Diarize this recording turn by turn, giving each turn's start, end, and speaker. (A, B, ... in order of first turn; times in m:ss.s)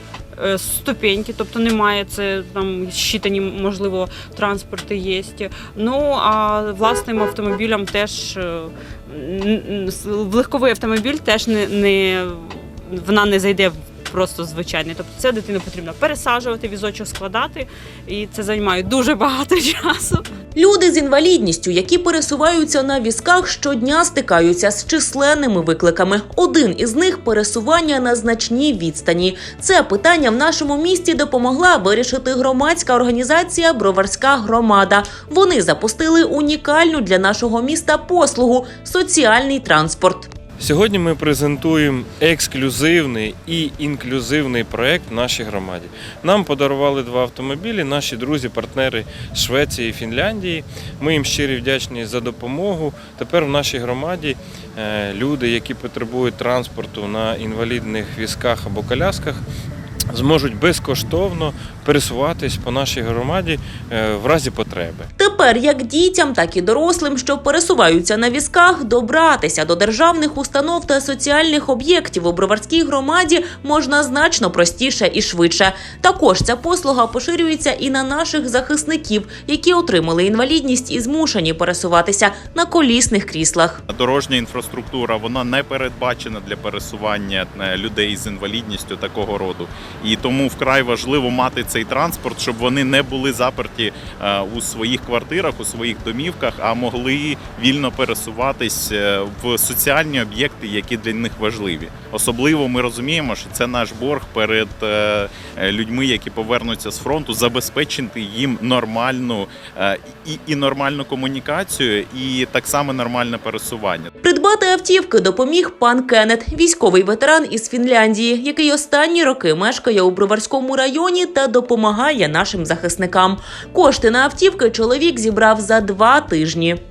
0:00.4-0:20.3 A
0:20.6-0:40.3 B
0:40.6-0:59.4 C
1:00.1-1:05.1 C
1:05.2-1:23.8 B
1:23.9-1:54.1 D
1:54.2-2:06.8 B